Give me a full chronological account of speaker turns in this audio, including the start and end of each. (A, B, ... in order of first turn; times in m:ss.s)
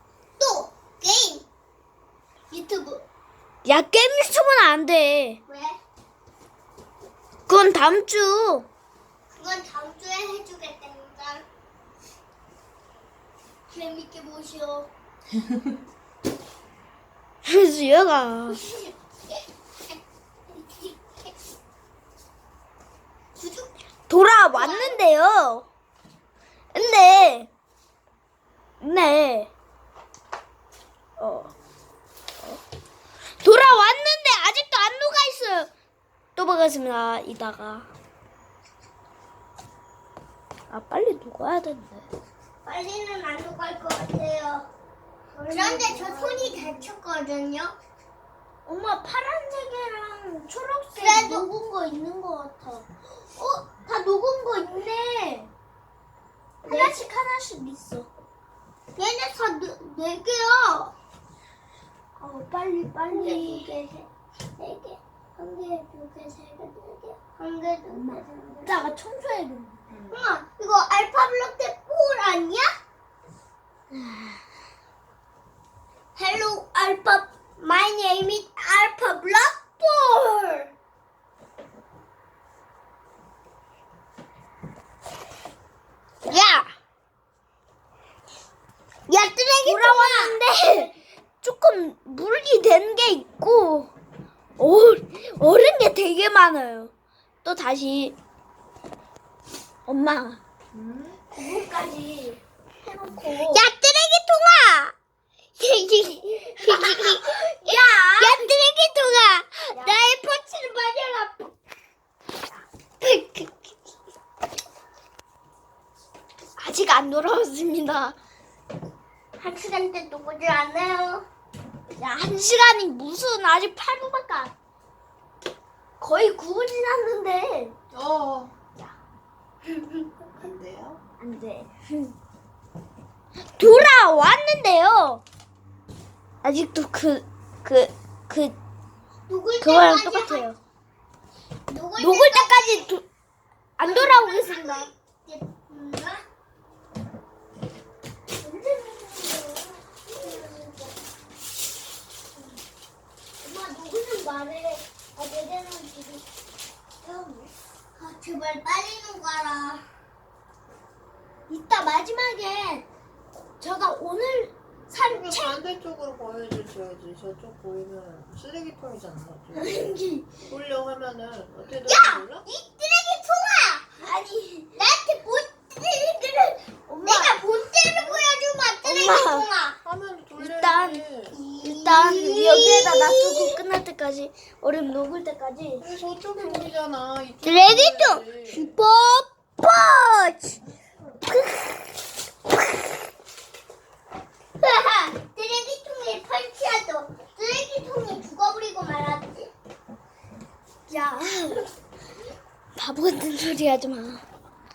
0:00.4-0:01.5 A
0:02.5-0:03.0 A
0:03.6-0:05.4 B
0:05.5-0:05.8 A
0:07.5-0:08.7 B
0:09.3-0:11.4 A
0:13.7-0:14.9 A
0:17.4-0:18.6 B
0:18.5-0:18.9 A
0:20.5-0:21.3 A
0:23.4-0:23.7 A
0:24.1-0:25.7 B
0:24.5-0:25.0 A
0:26.7-0:27.5 B
0:26.8-0:27.3 A
0:28.8-0:29.5 B
0:31.2-0:31.5 B
0:33.4-0:35.7 B
0:36.4-0:37.9 B
0:40.7-0:42.1 B
0:42.6-0:44.7 A
0:45.3-0:46.9 B
0:45.5-0:47.8 A
0:48.7-0:55.5 B
0:51.0-0:51.4 A
0:56.6-0:57.0 A
0:56.7-0:58.1 B
0:59.0-1:00.9 A
1:02.2-1:03.7 B
1:03.1-1:04.1 A
1:04.6-1:09.0 A
1:07.9-1:09.8 B
1:09.9-1:10.3 C
1:10.1-1:12.7 A
1:13.9-1:14.4 B
1:16.2-1:20.7 A
1:26.2-1:26.7 A
1:29.1-1:30.4 A
1:29.6-1:33.9 B
1:34.6-1:36.9 B
1:37.4-1:38.2 B
1:39.9-1:40.4 B
1:40.7-1:41.2 C
1:41.3-1:43.7 B
1:43.5-1:44.9 A
1:45.6-1:51.5 A
1:46.6-1:48.5 B
1:53.0-1:53.7 A
1:56.6-1:58.2 B
1:59.4-2:01.2 A
2:02.0-2:04.6 B
2:06.0-2:07.8 B
2:07.9-2:08.5 C
2:10.4-2:11.0 C
2:11.2-2:12.2 B
2:13.6-2:15.2 B
2:16.4-2:18.6 B
2:19.3-2:20.4 A
2:19.6-2:20.6 B
2:21.7-2:22.9 A
2:22.0-2:23.0 B
2:23.8-2:24.9 B
2:23.8-2:26.2 A
2:28.4-2:30.9 B
2:30.1-2:30.7 A
2:33.4-2:36.2 B
2:37.0-2:37.5 B
2:38.0-2:39.8 A
2:41.5-2:42.9 B
2:43.6-2:45.5 B
2:45.1-2:49.9 C
2:49.5-2:50.3 B
2:50.4-2:52.4 C
2:51.9-2:53.8 A
2:54.0-2:54.7 B
2:54.8-2:59.8 A
2:56.9-2:57.7 B
2:57.9-2:58.3 C
2:58.8-2:59.5 B
2:59.8-3:01.4 C
3:00.4-3:01.0 B
3:01.3-3:03.6 A
3:01.6-3:05.9 B
3:05.8-3:08.7 C
3:07.4-3:10.6 A
3:11.3-3:11.6 A
3:14.6-3:19.5 A
3:20.9-3:21.6 B
3:22.8-3:24.2 B